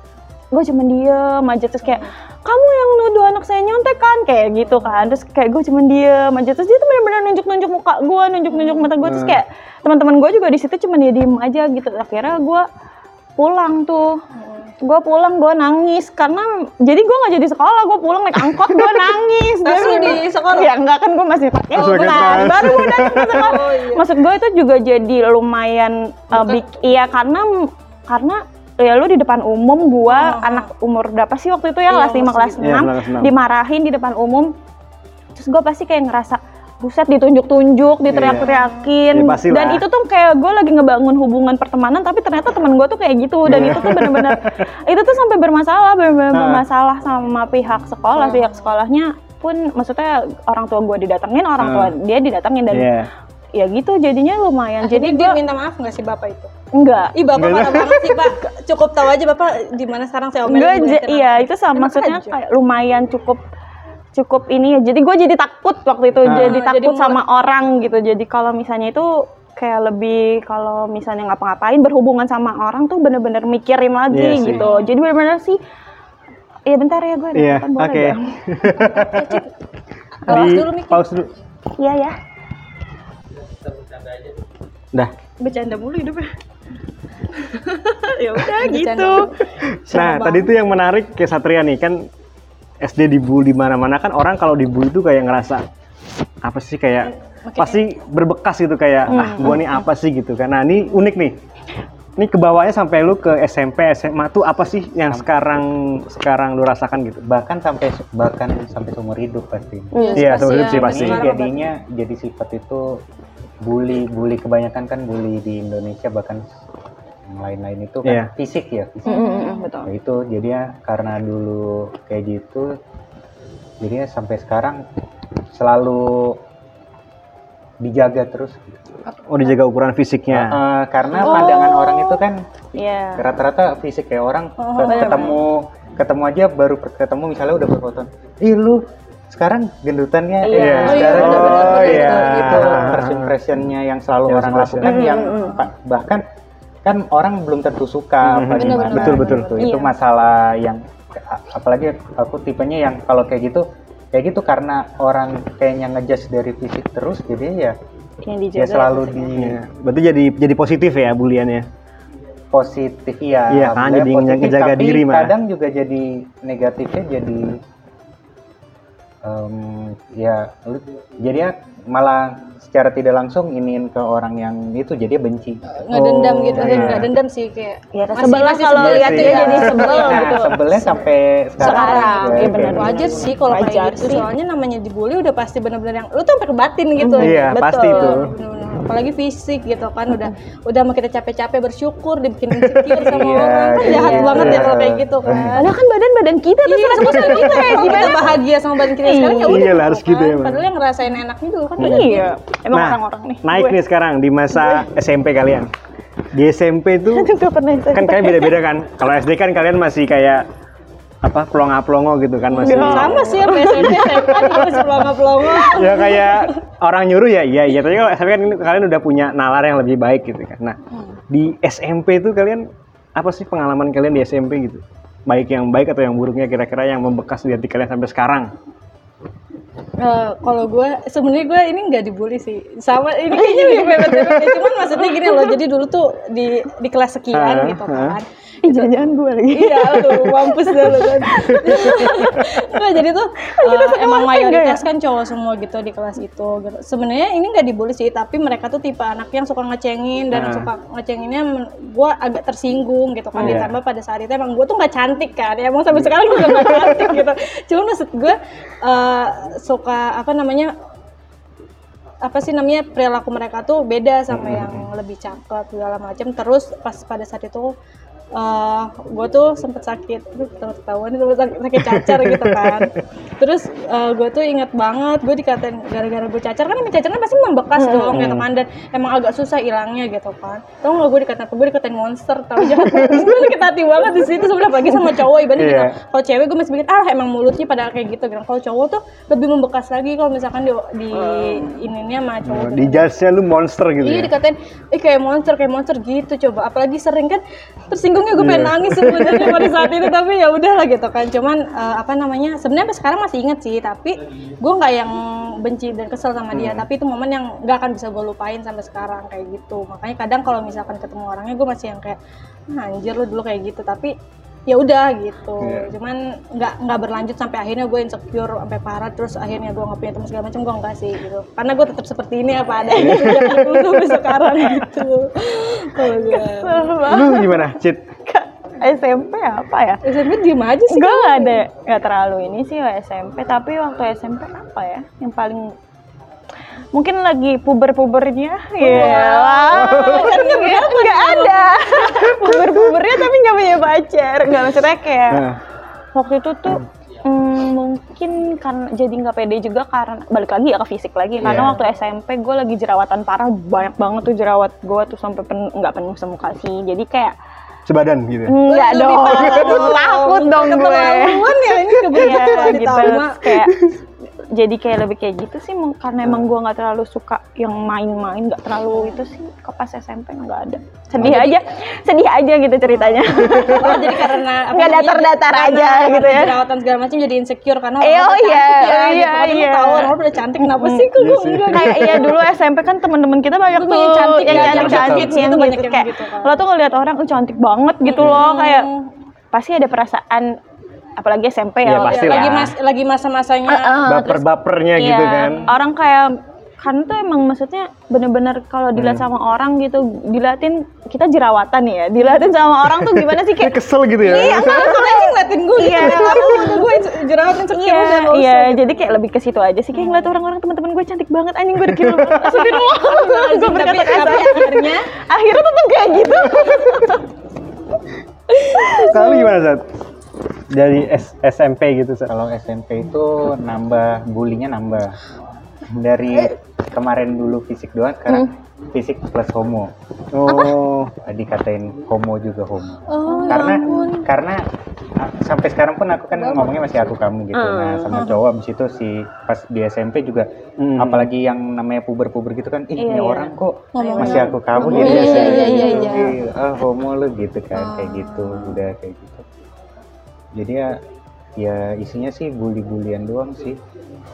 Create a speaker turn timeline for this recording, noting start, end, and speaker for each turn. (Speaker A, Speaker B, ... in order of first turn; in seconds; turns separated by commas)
Speaker A: 0.5-12.7, Speaker B: 4.7-5.1, Speaker B: 8.5-8.9, Speaker C: 9.0-9.4, Speaker A: 13.4-14.2, Speaker B: 14.3-14.7, Speaker A: 14.8-27.5, Speaker B: 19.6-20.7, Speaker B: 21.7-24.1, Speaker C: 21.7-23.6, Speaker B: 26.3-26.6, Speaker A: 28.1-34.5, Speaker B: 30.1-30.7, Speaker B: 31.9-32.6, Speaker C: 32.6-33.3, Speaker A: 35.3-52.9, Speaker C: 38.1-38.5, Speaker B: 38.3-38.9, Speaker C: 39.1-39.8, Speaker C: 43.5-44.5, Speaker C: 46.3-46.6, Speaker B: 48.2-48.7, Speaker C: 51.6-51.9, Speaker C: 52.7-53.1, Speaker A: 53.5-55.4, Speaker B: 54.8-56.5, Speaker A: 56.7-57.1, Speaker B: 57.1-62.3, Speaker C: 57.3-58.2, Speaker A: 60.5-63.4, Speaker A: 64.1-75.6, Speaker C: 66.2-66.5, Speaker B: 66.3-67.2, Speaker C: 74.1-74.6, Speaker B: 74.4-74.9, Speaker A: 76.7-78.4, Speaker C: 77.3-79.4, Speaker B: 78.7-79.5, Speaker B: 80.2-81.0, Speaker C: 80.3-81.3, Speaker A: 81.8-82.2, Speaker A: 85.4-86.3, Speaker A: 87.3-89.3, Speaker B: 88.5-89.3, Speaker C: 89.6-92.0, Speaker B: 89.9-90.5, Speaker C: 92.8-95.6, Speaker C: 96.4-101.4, Speaker B: 97.5-97.8, Speaker A: 99.1-99.8, Speaker C: 102.2-107.3, Speaker D: 107.2-109.9, Speaker A: 109.9-110.5, Speaker B: 110.0-111.7, Speaker C: 110.2-111.3, Speaker D: 110.5-113.0, Speaker D: 113.6-116.4, Speaker D: 117.3-122.7, Speaker C: 118.0-118.3, Speaker A: 119.0-119.9, Speaker B: 119.1-119.7, Speaker D: 123.8-124.8, Speaker D: 125.5-126.4, Speaker D: 127.8-128.8, Speaker C: 129.3-130.6, Speaker D: 130.3-146.2, Speaker A: 131.1-132.2, Speaker B: 131.2-131.6, Speaker A: 132.7-133.2, Speaker B: 134.6-135.3, Speaker A: 134.8-135.4, Speaker A: 140.4-142.0, Speaker C: 140.5-143.3, Speaker B: 140.6-143.0, Speaker C: 144.3-145.0, Speaker A: 144.8-145.6, Speaker B: 145.1-145.6, Speaker D: 146.8-157.7, Speaker C: 148.2-149.5, Speaker B: 148.5-149.7, Speaker A: 149.6-149.9, Speaker A: 158.2-159.3, Speaker D: 158.5-159.6, Speaker C: 159.3-161.7, Speaker D: 162.5-167.6, Speaker C: 163.5-165.3, Speaker D: 169.2-175.6, Speaker B: 175.8-181.1, Speaker C: 175.9-177.1, Speaker D: 176.6-176.9, Speaker A: 177.9-180.6, Speaker C: 178.2-180.3, Speaker D: 179.2-182.6, Speaker B: 181.6-195.7, Speaker A: 181.6-184.2, Speaker C: 182.5-183.1, Speaker A: 187.0-188.2, Speaker C: 187.2-188.3, Speaker C: 192.5-194.7, Speaker D: 193.1-195.6, Speaker A: 193.8-194.6, Speaker A: 195.5-198.3, Speaker B: 196.7-202.3, Speaker C: 197.0-198.4, Speaker A: 199.0-199.7, Speaker C: 199.4-200.6, Speaker C: 201.8-202.1, Speaker A: 201.8-203.8, Speaker C: 202.7-205.7, Speaker C: 206.3-207.2, Speaker A: 207.1-208.5, Speaker C: 207.9-210.4, Speaker C: 211.2-220.8, Speaker A: 212.5-214.0, Speaker B: 212.6-216.5, Speaker C: 221.3-228.5, Speaker B: 230.0-238.9, Speaker A: 233.3-234.1, Speaker C: 234.1-234.6, Speaker A: 235.0-235.6, Speaker C: 237.3-238.2, Speaker A: 238.6-242.4, Speaker B: 239.5-260.7, Speaker C: 241.6-242.1, Speaker A: 243.5-244.8, Speaker C: 250.3-250.7, Speaker A: 253.3-253.7, Speaker C: 253.4-253.7, Speaker C: 255.9-256.9, Speaker B: 262.2-267.7, Speaker C: 264.3-264.9, Speaker B: 268.4-293.1, Speaker C: 271.8-272.9, Speaker A: 277.8-278.2, Speaker C: 278.1-278.4, Speaker C: 282.6-283.5, Speaker C: 285.5-285.9, Speaker A: 291.2-291.7, Speaker C: 292.4-294.3, Speaker B: 294.0-312.2, Speaker C: 298.3-299.9, Speaker C: 306.5-306.8, Speaker B: 312.7-314.1, Speaker B: 314.7-326.9, Speaker C: 315.6-315.9, Speaker C: 322.9-324.3, Speaker A: 323.1-323.5, Speaker A: 326.1-327.7, Speaker C: 327.1-328.1, Speaker A: 328.2-330.0, Speaker B: 330.0-331.6, Speaker A: 330.9-335.7, Speaker A: 336.9-345.4, Speaker B: 338.8-342.7, Speaker C: 338.8-340.3, Speaker C: 342.4-343.2, Speaker C: 345.3-345.6, Speaker A: 346.1-357.3, Speaker C: 351.4-351.8, Speaker B: 351.5-351.8, Speaker C: 357.9-358.6, Speaker A: 358.4-361.5, Speaker B: 358.6-363.3, Speaker C: 359.3-359.7, Speaker C: 362.0-362.9, Speaker A: 362.1-363.8, Speaker C: 363.6-363.9, Speaker A: 364.6-376.6, Speaker B: 371.1-371.6, Speaker B: 372.9-382.3, Speaker C: 373.3-374.0, Speaker A: 378.0-380.1, Speaker C: 381.1-382.4, Speaker A: 381.7-388.9, Speaker B: 383.7-386.6, Speaker D: 384.5-385.3, Speaker B: 388.1-389.1, Speaker C: 388.2-388.4, Speaker A: 389.5-390.5, Speaker A: 391.2-392.6, Speaker C: 391.8-392.7, Speaker B: 392.1-394.1, Speaker A: 393.7-394.4, Speaker C: 394.0-395.7, Speaker A: 394.9-396.3, Speaker B: 395.4-395.7, Speaker A: 396.8-406.9, Speaker C: 398.9-399.2, Speaker B: 402.2-402.5, Speaker C: 403.0-405.1, Speaker B: 404.2-409.0, Speaker C: 406.0-406.4, Speaker A: 407.7-417.2, Speaker B: 409.9-410.3, Speaker C: 411.9-412.8, Speaker B: 412.4-415.1, Speaker B: 418.5-419.5, Speaker A: 418.8-419.1, Speaker C: 418.9-419.8, Speaker C: 420.7-422.3, Speaker D: 422.3-425.1, Speaker D: 425.9-429.9, Speaker C: 430.3-431.1, Speaker D: 431.2-434.6, Speaker B: 433.1-434.3, Speaker A: 433.3-434.1, Speaker D: 435.2-449.4, Speaker B: 436.3-437.0, Speaker A: 437.5-438.2, Speaker B: 438.1-438.4, Speaker C: 440.8-441.3, Speaker A: 442.9-445.9, Speaker B: 443.9-446.4, Speaker C: 444.9-446.2, Speaker B: 447.8-448.8, Speaker D: 450.6-450.9, Speaker D: 451.6-453.8